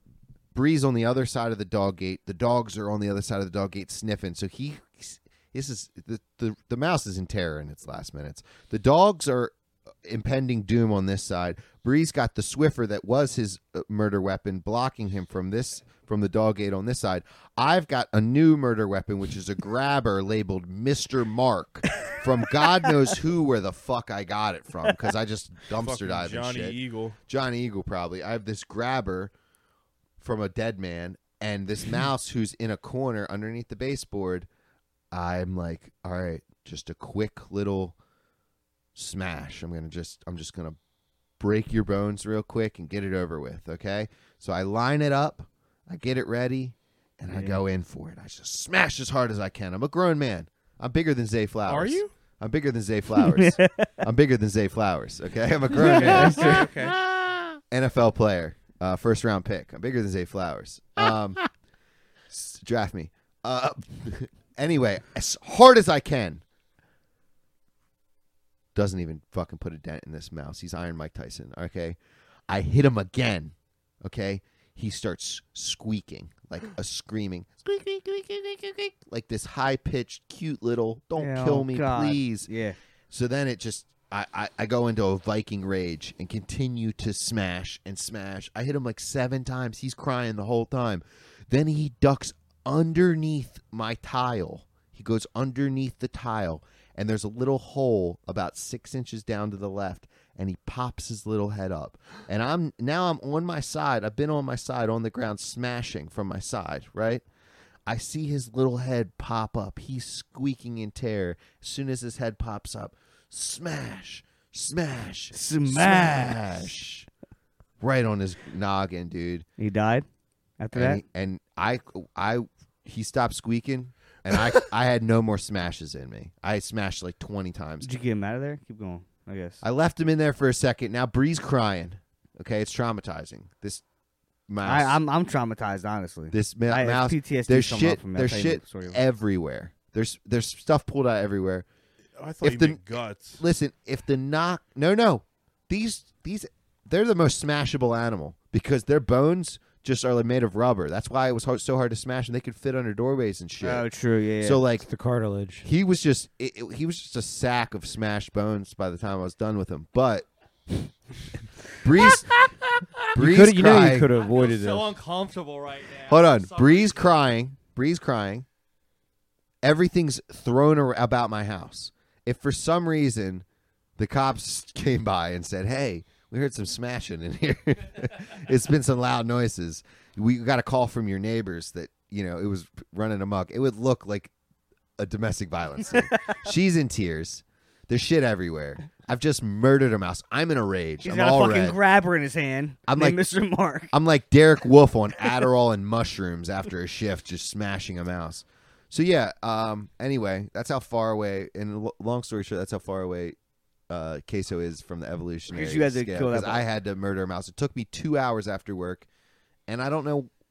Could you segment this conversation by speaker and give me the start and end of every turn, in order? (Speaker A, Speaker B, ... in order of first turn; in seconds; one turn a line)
Speaker A: 0.5-9.5
Speaker A: 10.0-29.3
Speaker B: 25.7-27.2
Speaker A: 30.2-34.5
Speaker A: 35.1-38.0
Speaker A: 38.9-40.8
Speaker A: 41.4-61.4
Speaker C: 47.3-47.6
Speaker B: 51.7-52.1
Speaker C: 53.2-53.9
Speaker C: 55.8-56.7
Speaker B: 55.8-57.0
Speaker A: 62.3-66.4
Speaker A: 68.7-82.5
Speaker C: 81.2-82.8
Speaker A: 83.1-107.2
Speaker A: 107.8-117.1
Speaker C: 115.3-116.6
Speaker A: 117.8-119.5
Speaker C: 119.6-120.0
Speaker C: 120.6-121.0
Speaker A: 120.7-128.0
Speaker C: 127.8-129.6
Speaker A: 129.6-133.8
Speaker A: 134.5-135.0
Speaker C: 134.6-139.0
Speaker A: 136.3-141.7
Speaker B: 142.2-143.4
Speaker A: 142.4-142.8
Speaker A: 143.4-153.9
Speaker C: 153.6-154.6
Speaker A: 154.4-154.9
Speaker D: 154.8-155.7
Speaker A: 155.6-160.2
Speaker A: 161.8-162.4
Speaker A: 163.1-164.1
Speaker D: 163.1-165.0
Speaker E: 164.2-167.2
Speaker A: 166.1-168.4
Speaker A: 169.6-173.4
Speaker A: 174.0-184.3
Speaker A: 185.0-191.8
Speaker C: 191.0-193.9
Speaker A: 192.9-193.2
Speaker A: 193.9-203.4
Speaker A: 203.9-209.1
Speaker C: 205.5-206.7
Speaker A: 209.7-210.3